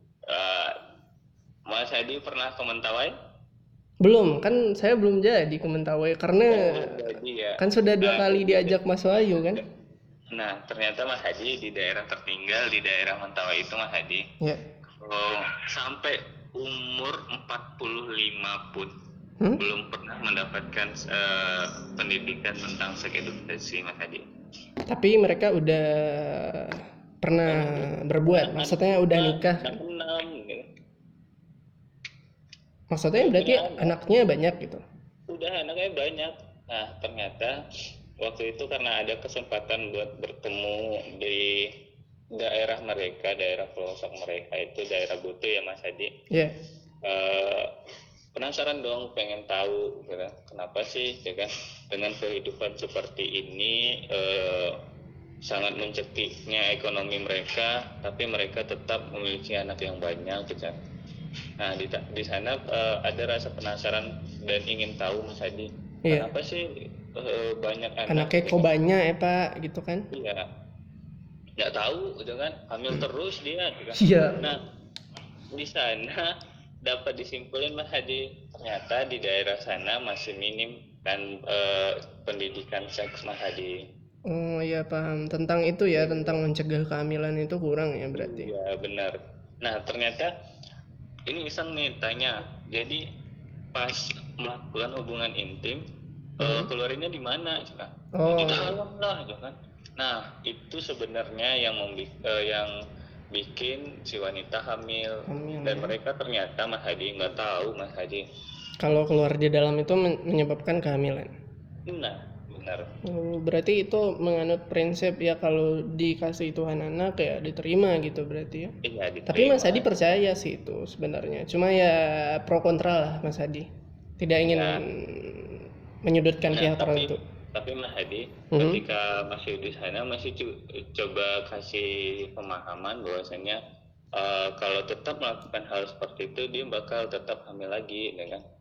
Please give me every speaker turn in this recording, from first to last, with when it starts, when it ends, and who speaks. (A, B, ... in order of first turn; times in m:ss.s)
0:00.3-0:00.7 A
0:01.7-0:03.1 A
0:04.0-0:09.6 B
0:06.5-0:09.6 A
0:10.3-0:14.2 A
0:15.0-0:18.9 A
0:19.6-0:24.2 A
0:24.9-0:29.8 B
0:27.5-0:30.6 A
0:32.9-0:34.8 B
0:33.1-0:34.0 A
0:35.3-0:37.6 A
0:38.2-0:41.7 A
0:42.4-0:46.1 A
0:47.0-0:47.7 A
0:48.4-0:54.8 A
0:55.4-1:00.8 A
1:01.6-1:08.6 A
1:08.1-1:10.0 B
1:10.1-1:10.4 A
1:11.6-1:14.6 A
1:14.0-1:14.5 B
1:15.5-1:16.3 A
1:16.8-1:23.8 A
1:24.3-1:28.5 B
1:26.0-1:26.4 A
1:28.1-1:30.3 A
1:31.3-1:33.0 A
1:33.7-1:35.8 A
1:36.4-1:36.7 B
1:36.4-1:42.7 A
1:38.1-1:38.8 B
1:43.3-1:48.2 A
1:45.3-1:45.9 B
1:48.8-1:51.3 B
1:51.9-1:52.9 A
1:53.0-1:58.7 B
1:58.8-1:59.9 A
1:59.3-2:03.7 B
2:04.2-2:07.2 B
2:04.4-2:04.8 A
2:06.5-2:13.6 A
2:08.5-2:08.8 B
2:14.1-2:18.4 A